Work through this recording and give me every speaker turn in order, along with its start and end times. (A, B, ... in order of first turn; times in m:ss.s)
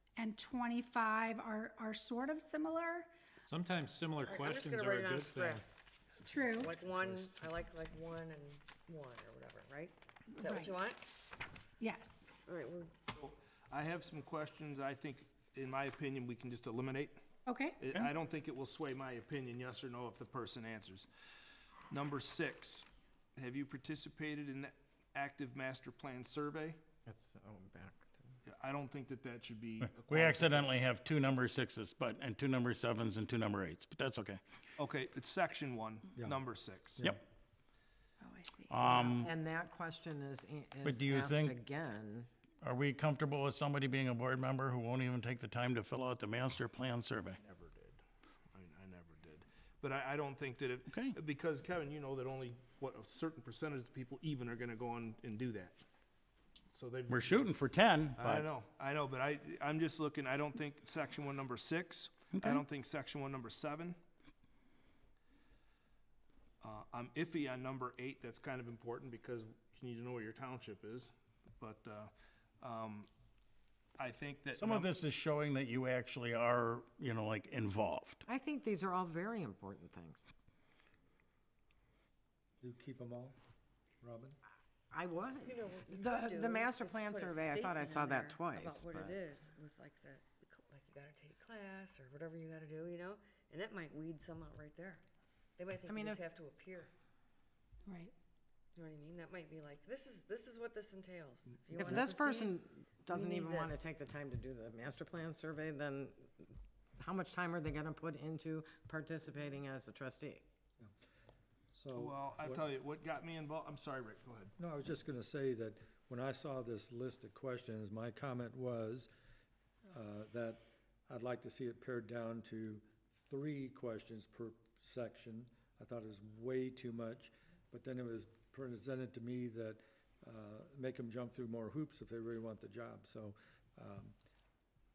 0:00.2-0:03.1 A
0:03.5-0:05.6 B
0:04.2-0:05.6 C
0:06.2-0:06.7 A
0:06.5-0:11.0 C
0:10.4-0:10.7 A
0:11.8-0:12.2 A
0:12.4-0:12.9 C
0:13.1-0:17.2 D
0:17.4-0:17.8 A
0:17.8-0:21.1 D
0:21.9-0:26.8 D
0:27.0-0:28.2 E
0:28.4-0:30.7 D
0:30.0-0:34.4 F
0:34.8-0:37.0 D
0:38.2-0:39.2 A
0:38.7-0:39.3 F
0:39.2-0:42.3 E
0:40.8-0:41.6 F
0:42.6-0:47.4 F
0:47.4-0:48.0 D
0:48.5-0:55.8 D
0:50.9-0:51.2 F
0:56.7-0:57.5 D
0:57.1-0:58.5 F
0:58.2-1:04.0 D
1:02.3-1:02.6 F
1:06.6-1:13.1 D
1:14.0-1:14.9 D
1:14.6-1:18.2 F
1:18.3-1:20.2 E
1:22.6-1:23.3 G
1:24.0-1:24.4 G
1:24.9-1:29.2 E
1:25.4-1:35.0 C
1:35.6-1:36.9 C
1:35.8-1:36.2 E
1:37.8-1:38.1 A
1:38.7-1:43.8 C
1:41.8-1:50.4 E
1:51.7-1:52.6 G
1:51.9-1:54.5 D
1:54.6-1:59.1 G
1:59.9-2:14.1 G